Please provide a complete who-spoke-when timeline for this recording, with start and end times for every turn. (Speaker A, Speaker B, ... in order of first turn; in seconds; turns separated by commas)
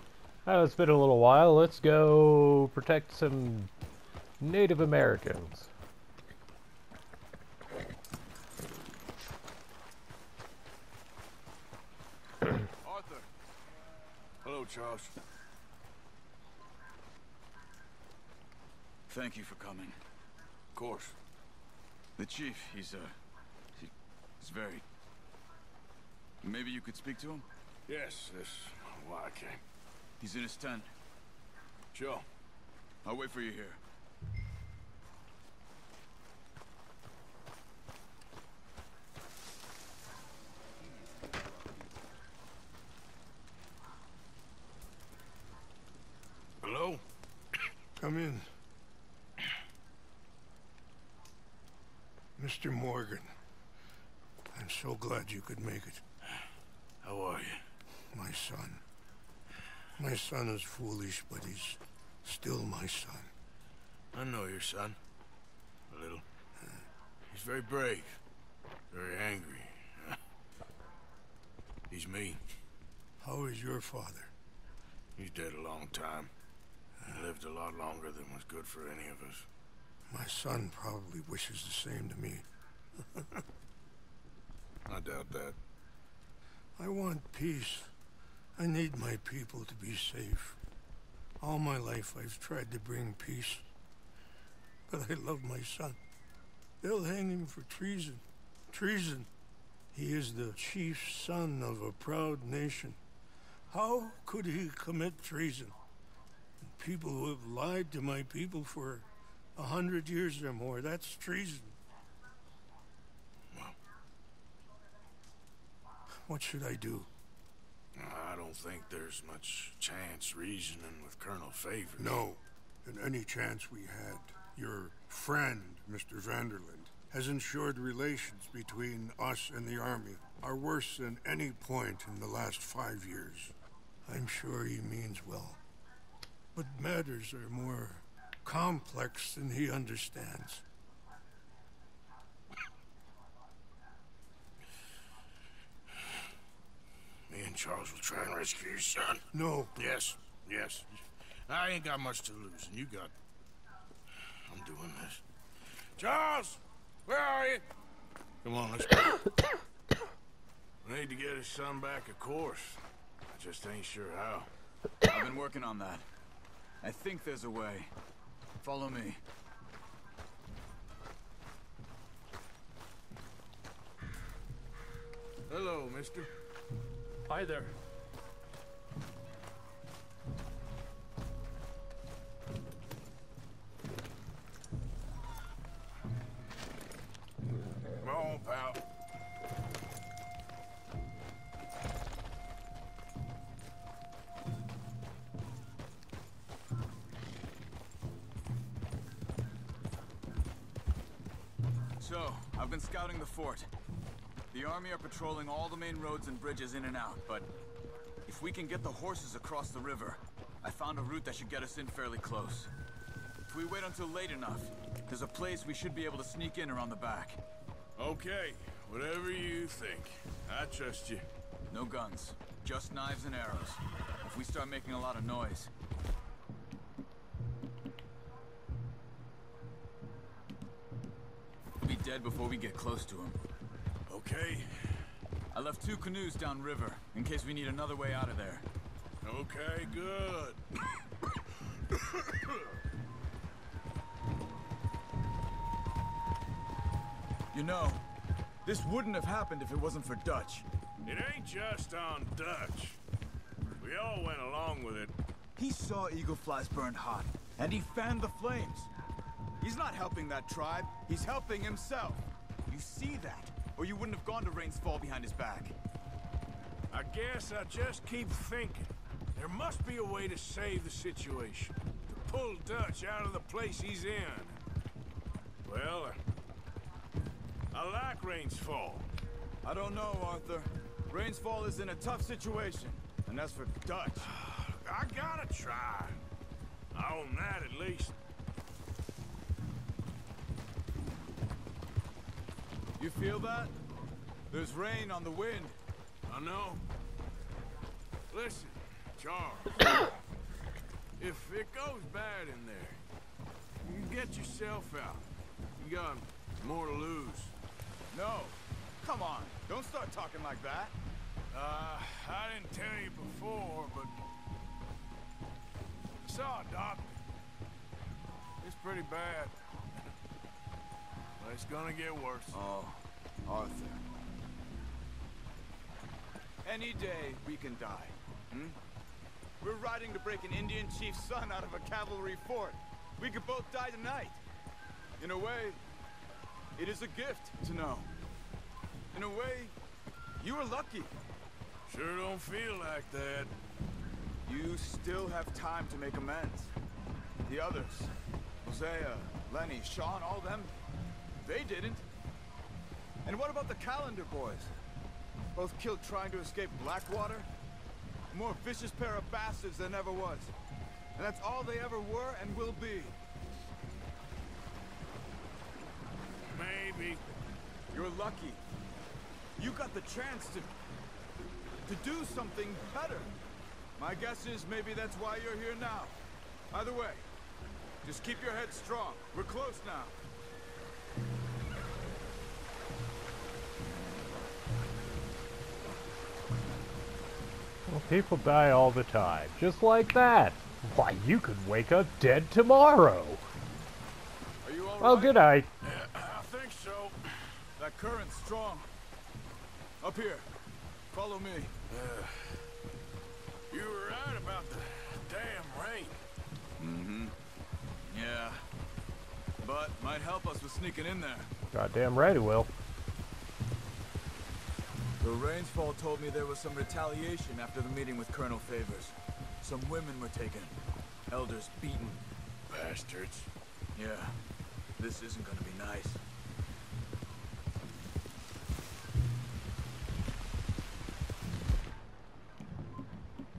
Speaker A: 0.5-3.7, Speaker A: 4.4-5.7, Speaker B: 12.8-13.3, Speaker C: 14.4-15.1, Speaker B: 19.1-20.0, Speaker C: 20.8-21.2, Speaker B: 22.2-23.1, Speaker B: 23.8-24.8, Speaker B: 26.4-27.4, Speaker C: 27.9-29.6, Speaker B: 30.2-30.9, Speaker C: 31.9-32.2, Speaker B: 33.0-33.8, Speaker C: 46.6-47.0, Speaker D: 48.0-48.5, Speaker D: 52.4-53.3, Speaker D: 54.5-56.0, Speaker C: 57.0-57.6, Speaker D: 58.1-58.8, Speaker D: 60.0-63.3, Speaker C: 64.1-65.0, Speaker C: 65.9-66.2, Speaker C: 67.3-68.2, Speaker C: 68.9-70.2, Speaker C: 71.9-72.4, Speaker D: 73.2-74.3, Speaker C: 75.2-76.3, Speaker C: 77.0-79.5, Speaker D: 80.1-82.5, Speaker D: 83.0-83.4, Speaker C: 84.9-85.6, Speaker D: 86.8-87.9, Speaker D: 88.6-90.6, Speaker D: 91.4-93.7, Speaker D: 94.9-96.0, Speaker D: 96.8-99.3, Speaker D: 99.9-103.0, Speaker D: 103.7-105.8, Speaker D: 106.6-111.8, Speaker D: 116.3-117.1, Speaker C: 118.0-122.2, Speaker D: 122.0-133.5, Speaker D: 134.1-135.6, Speaker D: 136.5-140.6, Speaker C: 147.3-149.2, Speaker D: 149.3-149.9, Speaker C: 149.8-153.1, Speaker C: 154.5-155.2, Speaker C: 156.0-157.7, Speaker C: 158.4-159.3, Speaker C: 160.8-164.5, Speaker B: 165.1-166.1, Speaker B: 166.8-167.9, Speaker B: 168.6-169.2, Speaker C: 175.5-176.3, Speaker C: 177.3-177.7, Speaker C: 188.0-188.8, Speaker B: 202.0-203.7, Speaker B: 204.5-207.5, Speaker B: 208.2-212.7, Speaker B: 213.5-217.4, Speaker C: 218.0-221.2, Speaker B: 221.7-225.7, Speaker B: 231.8-233.4, Speaker C: 234.1-235.0, Speaker B: 235.5-238.6, Speaker C: 239.2-241.0, Speaker C: 241.9-242.7, Speaker B: 247.5-248.0, Speaker B: 248.7-250.7, Speaker C: 251.1-253.0, Speaker C: 253.8-255.1, Speaker B: 255.6-258.9, Speaker B: 259.6-265.8, Speaker C: 266.9-274.6, Speaker C: 275.6-276.2, Speaker C: 277.7-279.1, Speaker B: 279.6-284.3, Speaker C: 284.2-286.2, Speaker C: 286.9-288.2, Speaker B: 293.0-293.7, Speaker B: 294.5-295.8, Speaker C: 296.3-296.8, Speaker C: 298.3-299.9, Speaker C: 301.2-303.0, Speaker C: 303.8-307.5, Speaker B: 308.1-310.9, Speaker C: 311.5-314.1, Speaker C: 316.2-317.2, Speaker C: 318.6-319.5, Speaker C: 321.4-322.6, Speaker B: 322.5-324.0, Speaker B: 326.6-328.8, Speaker B: 329.6-334.4, Speaker B: 335.2-335.8, Speaker B: 336.8-338.1, Speaker B: 339.1-339.7, Speaker B: 340.4-341.1, Speaker C: 341.9-343.5, Speaker B: 344.4-346.7, Speaker B: 347.4-350.7, Speaker B: 351.4-352.0, Speaker B: 353.2-354.7, Speaker B: 355.6-357.5, Speaker B: 358.3-360.5, Speaker B: 361.2-363.1, Speaker C: 366.4-367.2, Speaker B: 367.9-368.6, Speaker B: 369.6-370.7, Speaker B: 371.9-373.3, Speaker B: 374.0-376.2, Speaker B: 376.7-377.2, Speaker B: 378.0-380.1, Speaker A: 387.9-393.4, Speaker B: 394.6-395.4, Speaker A: 395.0-395.7, Speaker C: 395.8-397.6, Speaker B: 397.8-398.9, Speaker B: 400.0-400.5, Speaker B: 401.1-401.7, Speaker C: 401.9-402.7, Speaker C: 403.7-406.2, Speaker B: 406.8-407.4, Speaker B: 408.1-408.6, Speaker B: 409.6-411.5, Speaker A: 411.7-412.7, Speaker B: 415.2-420.8, Speaker B: 421.3-422.2, Speaker C: 422.7-423.5, Speaker B: 423.9-424.4, Speaker B: 425.0-426.2